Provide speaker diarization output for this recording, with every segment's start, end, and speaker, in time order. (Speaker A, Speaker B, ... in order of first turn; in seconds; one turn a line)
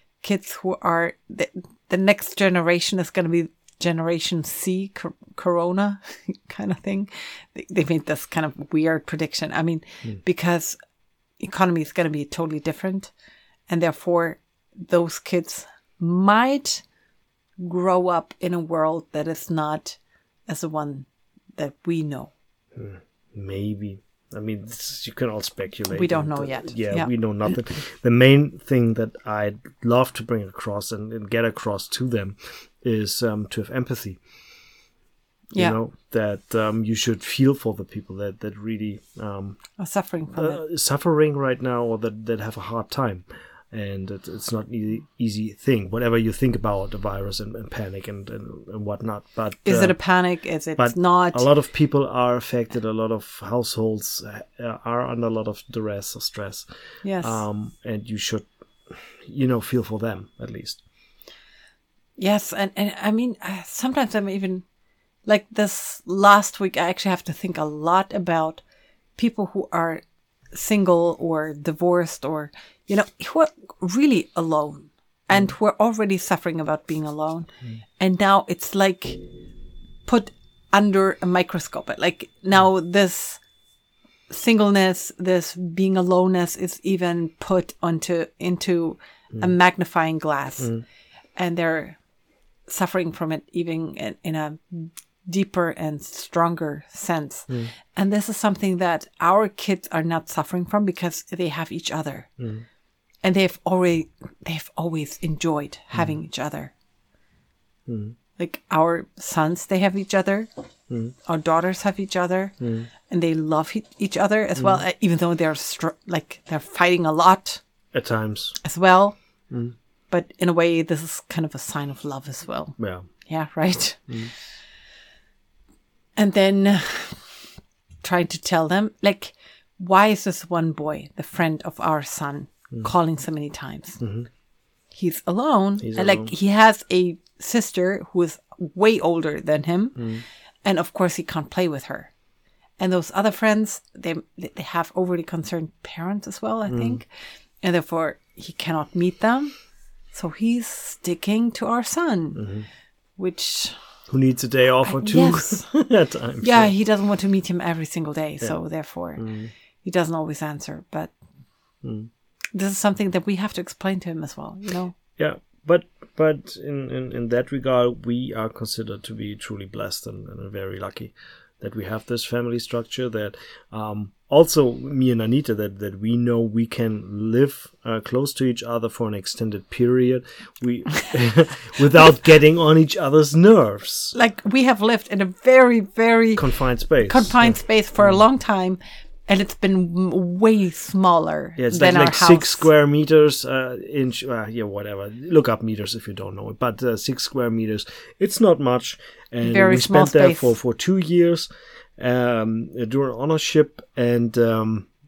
Speaker A: 0.2-10.8
Speaker A: 11.4-13.1
Speaker A: 13.7-16.8
Speaker A: 17.6-22.3
Speaker B: 22.8-34.2
Speaker A: 25.9-27.1
Speaker B: 35.5-39.6
Speaker A: 39.8-40.6
Speaker B: 40.4-50.0
Speaker A: 49.6-51.5
Speaker B: 50.8-56.7
Speaker A: 57.0-57.4
Speaker B: 57.2-60.8
Speaker A: 62.2-64.6
Speaker A: 65.3-68.6
Speaker A: 69.2-77.5
Speaker A: 78.0-79.2
Speaker A: 80.1-83.4
Speaker A: 84.3-90.7
Speaker A: 91.4-92.0
Speaker A: 92.7-102.3
Speaker A: 103.2-106.7
Speaker B: 107.9-108.2
Speaker A: 108.4-110.5
Speaker A: 111.3-112.5
Speaker B: 112.6-112.9
Speaker A: 113.1-117.6
Speaker B: 117.9-118.6
Speaker A: 118.6-119.2
Speaker A: 120.1-124.1
Speaker B: 122.8-123.1
Speaker A: 126.2-127.2
Speaker A: 128.0-134.0
Speaker B: 134.0-134.3
Speaker A: 134.9-140.1
Speaker B: 135.8-136.3
Speaker B: 140.0-140.2
Speaker A: 140.7-142.1
Speaker A: 142.8-147.1
Speaker B: 146.7-147.0
Speaker A: 147.6-149.5
Speaker A: 150.1-152.4
Speaker B: 152.4-152.7
Speaker A: 153.2-153.8
Speaker B: 154.1-156.7
Speaker A: 154.8-155.7
Speaker A: 156.4-159.2
Speaker B: 159.2-159.5
Speaker A: 159.8-161.1
Speaker B: 161.8-162.1
Speaker A: 162.5-164.9
Speaker B: 165.2-184.2
Speaker A: 184.1-186.4
Speaker B: 186.4-188.2
Speaker A: 187.0-192.7
Speaker B: 191.6-204.9
Speaker A: 199.4-200.5